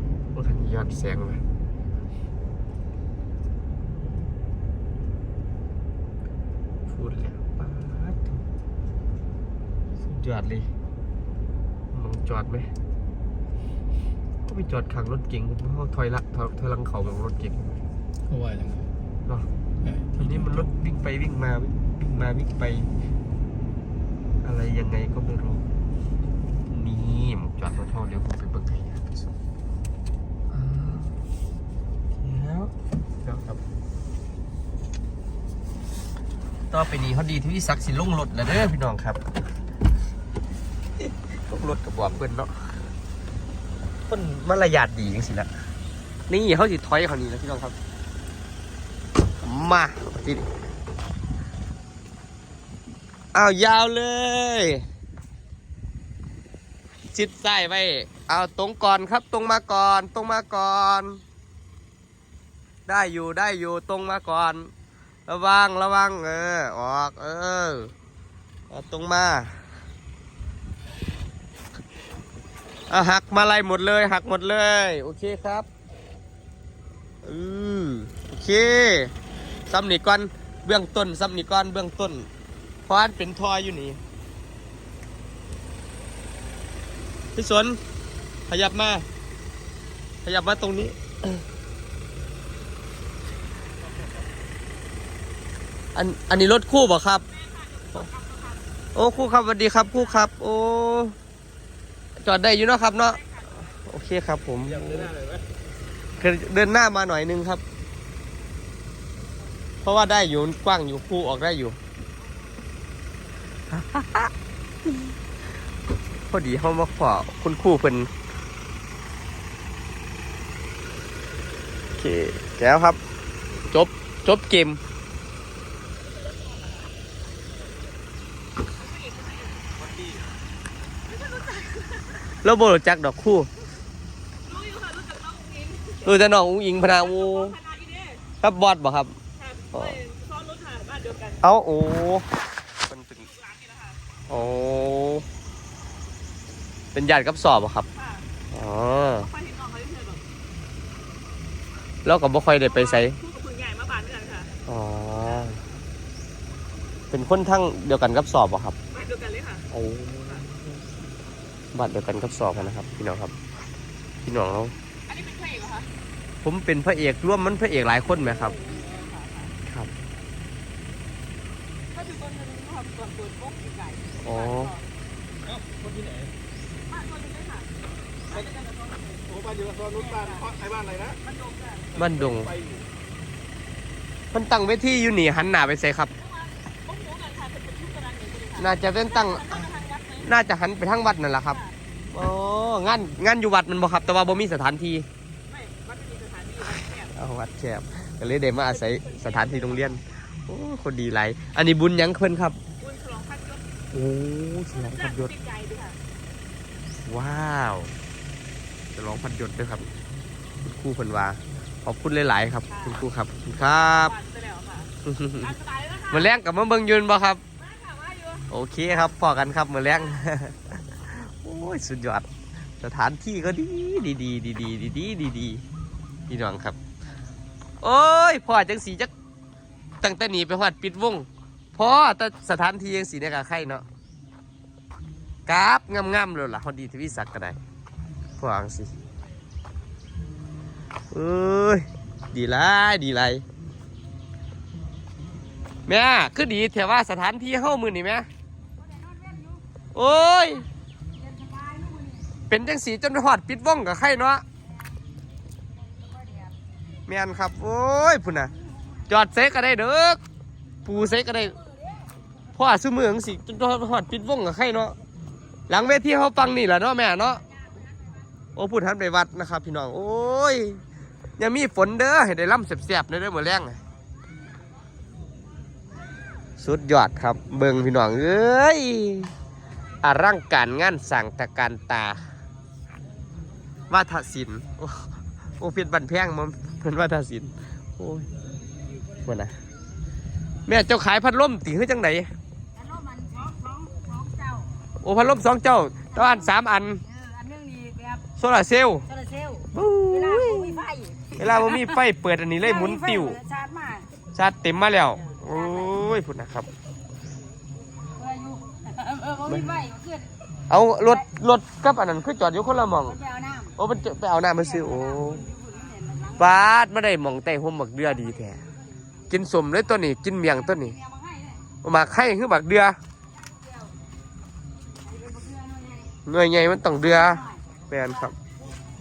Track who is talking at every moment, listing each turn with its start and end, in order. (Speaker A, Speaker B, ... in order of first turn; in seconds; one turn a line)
Speaker A: 0.3-1.4
Speaker A: 6.9-8.4
Speaker A: 10.0-10.7
Speaker A: 11.9-12.7
Speaker A: 14.4-17.8
Speaker B: 18.3-18.9
Speaker B: 19.8-20.7
Speaker A: 20.2-22.9
Speaker A: 24.4-25.7
Speaker A: 26.7-29.3
Speaker A: 30.5-31.2
Speaker A: 32.2-32.7
Speaker A: 33.2-33.6
Speaker A: 36.7-39.2
Speaker A: 41.0-42.8
Speaker A: 44.1-45.5
Speaker A: 46.3-47.8
Speaker A: 49.4-50.5
Speaker A: 53.3-54.9
Speaker A: 57.1-61.2
Speaker A: 62.9-64.7
Speaker A: 65.3-67.9
Speaker A: 68.7-69.6
Speaker A: 72.9-75.7
Speaker A: 77.2-79.1
Speaker A: 79.7-82.3
Speaker A: 82.9-84.0
Speaker A: 87.3-87.8
Speaker A: 88.5-89.0
Speaker A: 90.2-91.4
Speaker A: 96.0-97.3
Speaker C: 97.3-98.7
Speaker A: 99.0-101.2
Speaker A: 102.2-105.1
Speaker C: 103.1-103.7
Speaker B: 104.8-105.4
Speaker A: 106.2-107.6
Speaker A: 109.8-111.8
Speaker A: 113.7-114.3
Speaker A: 114.9-115.2
Speaker A: 116.3-118.1
Speaker A: 122.0-123.0
Speaker A: 123.7-124.8
Speaker C: 128.8-129.9
Speaker C: 131.1-132.1
Speaker A: 132.3-133.5
Speaker C: 134.4-136.1
Speaker A: 136.0-137.6
Speaker C: 136.9-138.2
Speaker A: 138.4-139.2
Speaker C: 139.4-141.4
Speaker A: 139.7-140.0
Speaker A: 141.4-142.3
Speaker A: 142.8-143.3
Speaker C: 143.3-144.0
Speaker A: 144.3-145.2
Speaker A: 146.9-147.9
Speaker C: 148.0-148.2
Speaker A: 148.5-149.3
Speaker C: 149.2-150.2
Speaker A: 152.1-153.2
Speaker C: 152.7-154.5
Speaker A: 154.7-155.6
Speaker A: 157.1-158.8
Speaker C: 158.9-159.7
Speaker A: 159.7-160.8
Speaker A: 161.7-163.3
Speaker A: 164.2-164.7
Speaker C: 165.1-165.9
Speaker A: 166.4-168.6
Speaker C: 168.4-169.5
Speaker A: 169.7-169.9
Speaker C: 171.9-174.9
Speaker A: 174.2-174.7
Speaker B: 175.4-176.3
Speaker C: 176.9-177.7
Speaker C: 178.3-179.2
Speaker B: 179.3-181.2
Speaker C: 179.9-180.5
Speaker C: 181.2-181.9
Speaker B: 181.9-182.9
Speaker A: 182.0-182.5
Speaker A: 184.3-186.1
Speaker C: 186.2-190.3
Speaker A: 188.6-189.7
Speaker A: 190.2-191.6
Speaker A: 192.1-195.1
Speaker C: 195.5-197.1
Speaker A: 196.6-202.6
Speaker C: 198.9-200.0
Speaker C: 202.8-203.8
Speaker A: 203.9-205.3
Speaker C: 204.7-206.0
Speaker A: 207.1-207.9
Speaker A: 208.9-209.9
Speaker A: 210.6-214.1
Speaker C: 212.7-213.0
Speaker C: 214.0-216.3
Speaker A: 215.0-215.5
Speaker A: 216.1-217.4
Speaker C: 217.6-218.4
Speaker A: 218.5-222.3
Speaker A: 222.8-225.7
Speaker A: 226.3-226.8
Speaker A: 227.8-229.1
Speaker A: 230.0-233.8
Speaker A: 235.5-237.6
Speaker A: 238.4-238.9
Speaker A: 241.1-243.4
Speaker A: 245.9-248.3
Speaker D: 248.8-249.6
Speaker A: 249.9-250.7
Speaker D: 251.2-252.3
Speaker A: 252.5-254.4
Speaker D: 256.0-256.5
Speaker A: 257.1-258.5
Speaker A: 259.1-260.2
Speaker A: 260.9-261.6
Speaker A: 262.6-265.0
Speaker A: 265.7-267.4
Speaker A: 268.6-270.8
Speaker A: 271.4-273.8
Speaker A: 276.6-279.3
Speaker A: 280.0-282.2
Speaker A: 283.9-288.3
Speaker A: 289.2-289.6
Speaker A: 290.7-292.3
Speaker D: 292.8-294.7
Speaker A: 295.0-297.0
Speaker D: 297.1-298.2
Speaker A: 298.4-299.1
Speaker D: 299.1-301.4
Speaker A: 299.7-303.4
Speaker D: 302.9-304.1
Speaker A: 304.3-306.7
Speaker D: 308.2-310.3
Speaker A: 309.4-309.8
Speaker A: 310.7-313.2
Speaker D: 313.2-313.7
Speaker A: 313.8-315.4
Speaker D: 314.9-316.4
Speaker A: 316.4-318.6
Speaker A: 319.3-321.0
Speaker D: 321.0-321.6
Speaker A: 321.8-323.0
Speaker D: 325.1-326.1
Speaker A: 326.3-328.4